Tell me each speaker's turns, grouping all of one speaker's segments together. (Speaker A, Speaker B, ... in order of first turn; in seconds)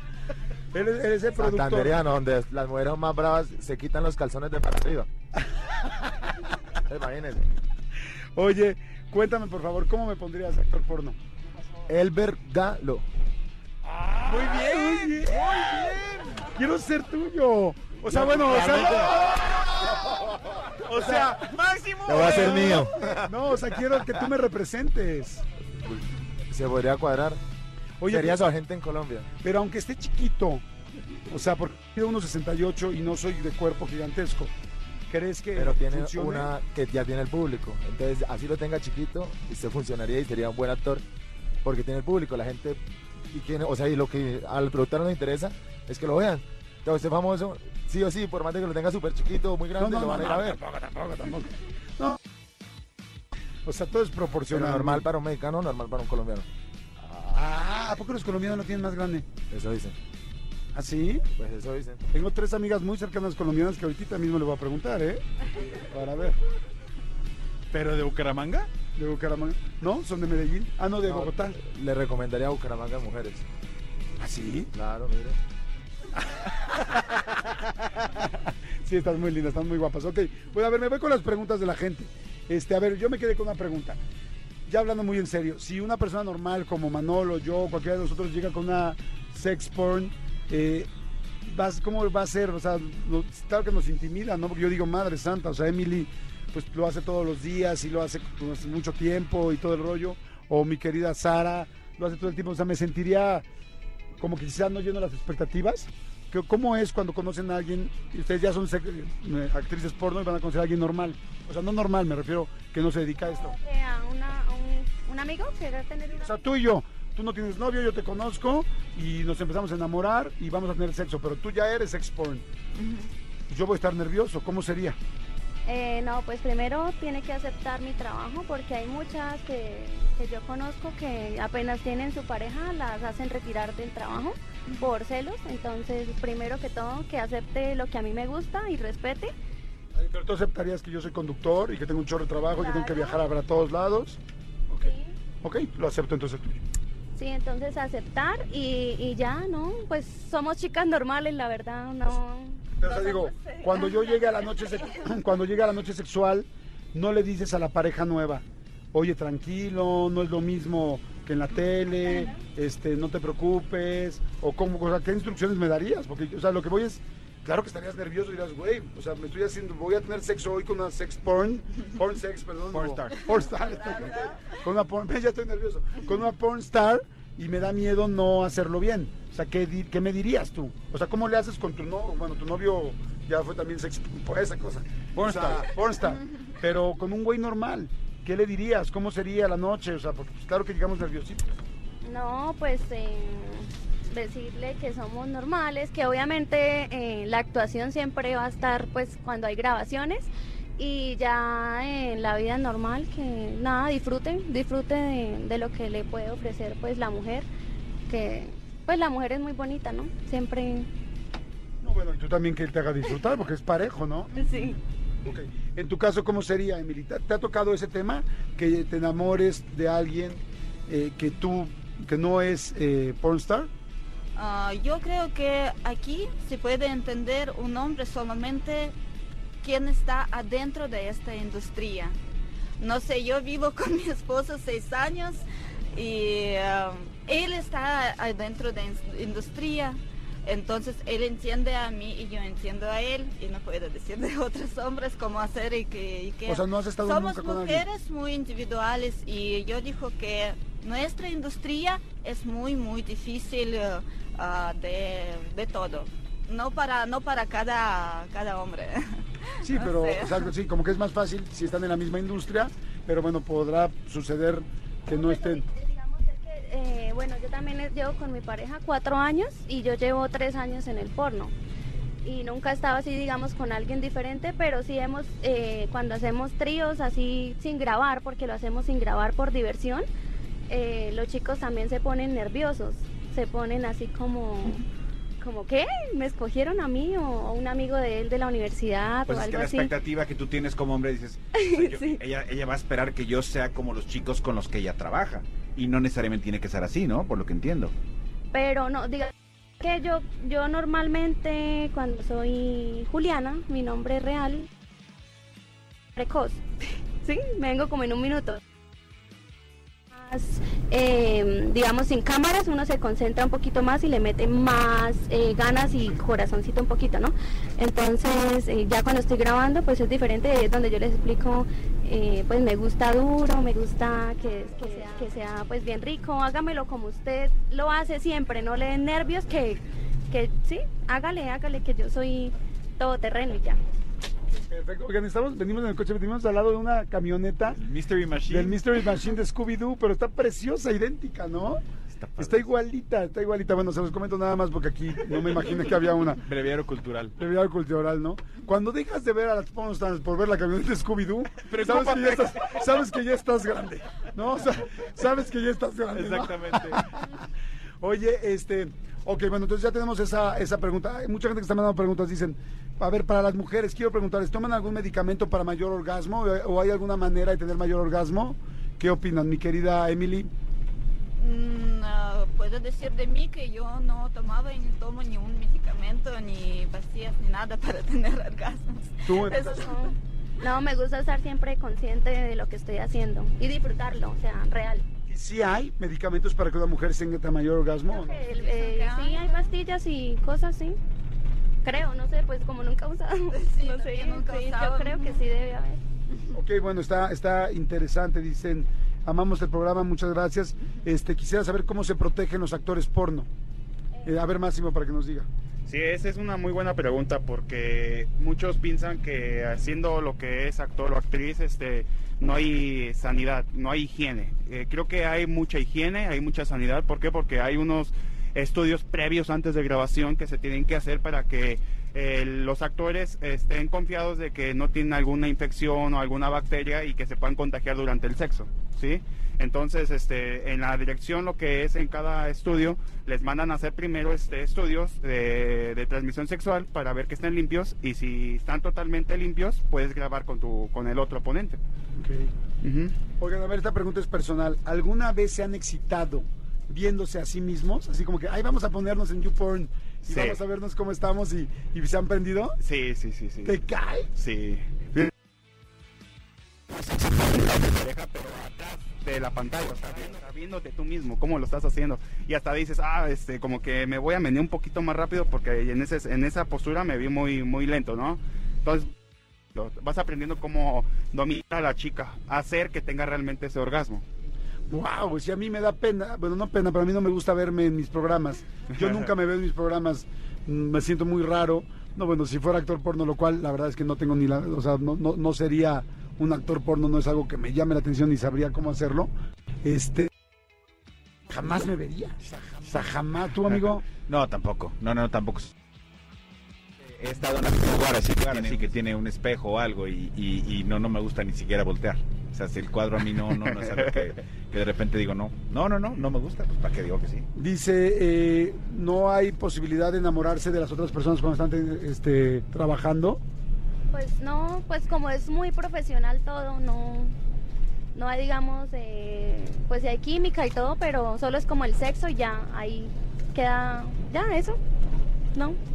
Speaker A: 0.7-2.0, 8.3-11.2, 13.8-19.4, 20.8-21.6, 22.1-25.4, 28.0-28.4, 29.4-30.6, 31.3-34.5, 35.1-36.5, 49.8-52.2, 53.6-55.1, 57.3-59.3, 60.7-61.2, 62.1-66.4, 69.0-71.6, 74.2-74.7, 76.4-84.0, 84.7-90.9, 91.4-103.4, 104.2-113.5, 116.1-122.4, 123.5-125.0, 139.9-146.6, 152.8-191.6, 211.8-214.3, 215.2-223.7, 246.4-247.8, 259.6-265.6, 334.5-337.8, 338.5-341.8, 342.4-346.4, 347.4-357.3, 358.0-370.5, 379.2-379.9, 385.3-388.4, 396.5-403.5, 404.2-405.5, 442.1-442.5, 443.4-452.8, 453.6-454.3, 474.9-489.3, 489.8-490.3, 491.5-494.0, 507.5-513.4
Speaker B: 1.4-5.1, 6.8-7.5, 11.9-13.1, 22.0-23.2, 26.5-27.4, 28.1-29.3, 35.5-41.0, 41.6-50.6, 54.5-56.5, 57.0-57.3, 59.5-60.0, 61.3-62.0, 71.0-73.5, 74.7-75.4
Speaker C: 14.2-16.5, 18.2-23.0, 67.7-68.7, 172.7-173.3, 185.2-185.7, 289.2-297.9, 337.8-338.8, 342.1-342.7, 346.4-347.3, 351.6-352.8, 356.1-357.1, 492.8-493.1, 494.1-495.7, 497.1-507.5
Speaker D: 113.2-116.4, 125.7-139.3, 142.6-143.2, 144.8-145.1, 147.2-152.7, 192.0-207.4, 208.1-210.9, 214.3-214.7, 265.1-271.5, 272.2-280.0, 280.7-284.8, 285.4-289.9, 291.6-292.2, 298.5-304.7, 306.1-306.6, 307.2-308.6, 310.1-333.8, 379.5-385.0, 388.1-391.0, 391.8-396.0, 514.1-517.3, 518.1-524.8
Speaker E: 122.8-123.1, 152.8-154.2, 173.5-174.4, 214.4-214.8, 224.3-228.9, 229.6-232.2, 232.8-260.5, 371.4-380.1, 388.4-389.7, 393.5-395.4
Speaker F: 405.9-441.8, 442.8-443.2, 450.3-450.6, 452.8-453.8, 454.4-455.3, 457.6-469.1, 469.7-474.2